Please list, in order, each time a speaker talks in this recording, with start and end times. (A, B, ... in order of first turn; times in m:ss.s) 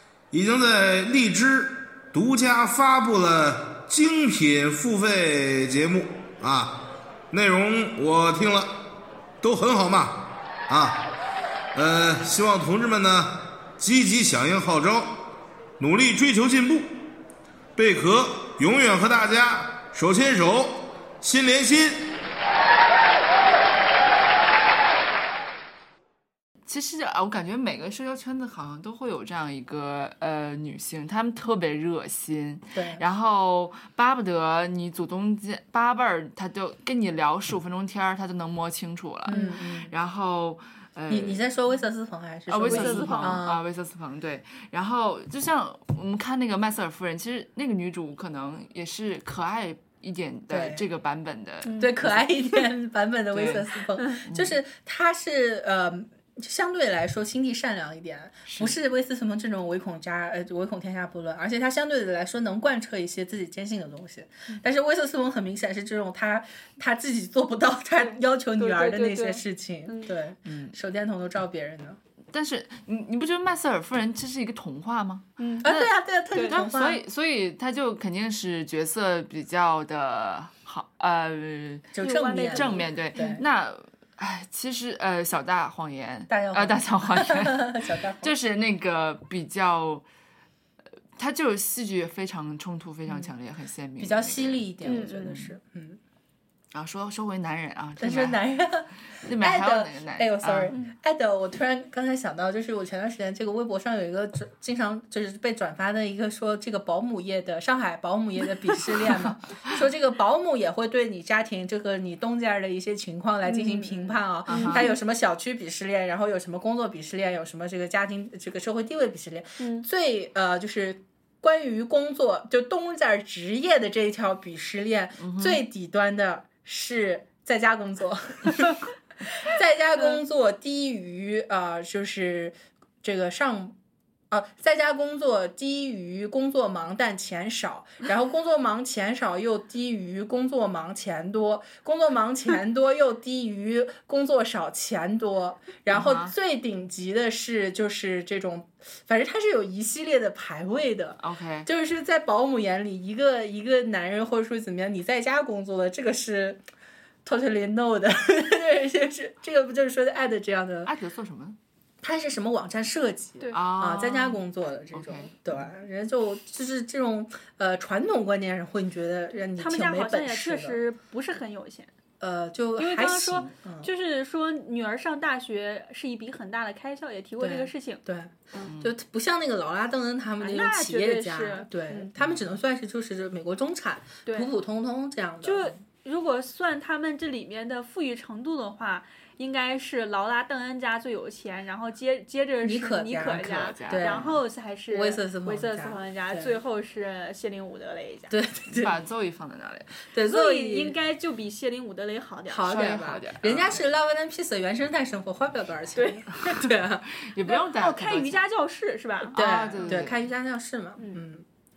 0:00.3-0:06.8 A
0:07.3-0:08.8 A
0:09.4-0:11.0 A
0:11.8-0:15.2 A
0:15.8-0:17.0 A
0:17.8-0:22.1 A
0:26.7-0:41.4 B
0:32.7-0:33.0 C
0:39.3-0:39.9 C
0:39.3-0:39.5 D
0:41.1-0:43.6 C
0:42.5-0:52.2 B
0:42.6-0:43.4 D
0:50.5-0:50.8 C
0:51.6-0:52.0 D
0:51.8-1:12.0 C
0:53.3-0:53.7 B
0:54.3-0:54.6 B
0:58.5-0:58.8 B
1:08.0-1:10.2 D
1:10.5-1:10.8 B
1:12.3-1:15.9 B
1:15.4-1:15.7 D
1:15.6-1:17.0 C
1:16.3-1:16.6 D
1:16.5-1:21.9 B
1:21.9-1:23.4 C
1:22.0-1:22.9 D
1:22.5-1:30.0 B
1:26.3-1:28.3 C
1:31.2-1:35.5 B
1:34.0-1:36.0 C
1:34.8-1:35.4 D
1:36.7-1:38.4 B
1:38.0-2:13.8 C
1:39.2-1:40.7 B
1:53.5-1:55.0 D
1:54.5-1:54.8 B
1:59.6-1:59.9 D
2:05.2-2:05.6 B
2:14.3-2:36.6 C
2:25.9-2:26.3 B
2:31.2-2:31.7 B
2:37.2-2:40.9 C
2:40.8-2:41.6 B
2:42.0-2:50.8 C
2:43.5-2:44.4 B
2:44.9-2:45.4 B
2:49.6-2:51.9 D
2:52.2-2:53.9 C
2:52.8-2:58.0 D
2:57.4-3:05.7 C
2:58.7-2:58.9 B
3:00.4-3:02.1 D
3:05.4-3:18.3 D
3:12.6-3:14.3 C
3:13.3-3:14.4 B
3:14.9-3:16.6 C
3:18.3-3:19.0 C
3:18.7-3:19.9 B
3:20.1-3:21.0 C
3:20.2-3:22.9 D
3:22.5-3:27.1 C
3:22.7-3:23.8 B
3:26.0-3:26.2 D
3:26.4-3:28.4 B
3:27.5-3:30.0 D
3:29.3-3:30.2 B
3:29.4-3:31.4 C